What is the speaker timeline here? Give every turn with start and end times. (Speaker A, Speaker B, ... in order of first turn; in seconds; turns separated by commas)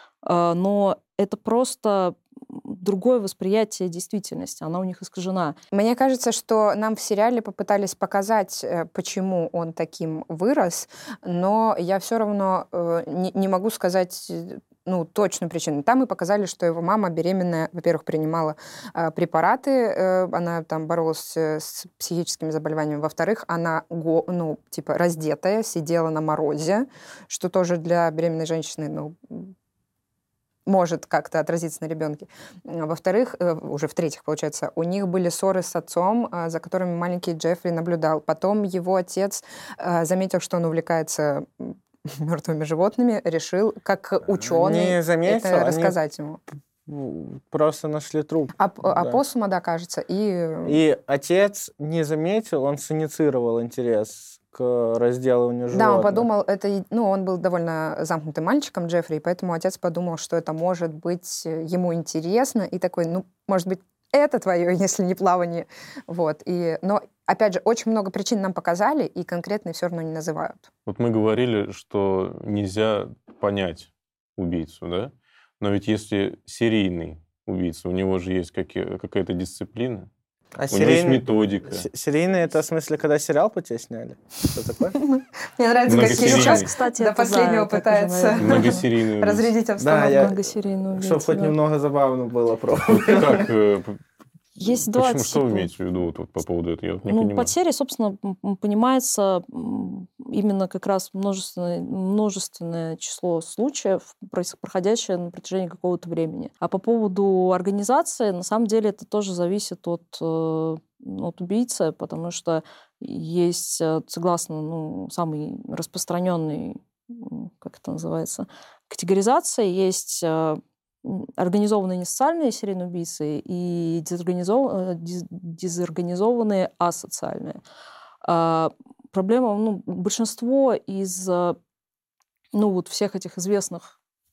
Speaker A: 0.2-5.6, Speaker B: 5.7-29.5, Speaker B: 30.7-46.4, Speaker C: 44.4-46.0, Speaker C: 46.9-49.2, Speaker B: 48.6-50.8, Speaker C: 50.6-56.3, Speaker B: 55.7-70.7, Speaker D: 70.9-80.1, Speaker C: 80.6-85.0, Speaker D: 80.7-81.9, Speaker B: 85.1-90.3, Speaker D: 85.9-86.7, Speaker A: 86.0-88.8, Speaker D: 88.4-89.5, Speaker C: 89.8-90.4, Speaker A: 90.1-91.6, Speaker C: 91.0-93.5, Speaker D: 92.9-94.0, Speaker A: 94.6-95.7, Speaker D: 94.9-97.5, Speaker A: 97.1-127.6, Speaker A: 128.2-131.6, Speaker A: 132.5-133.9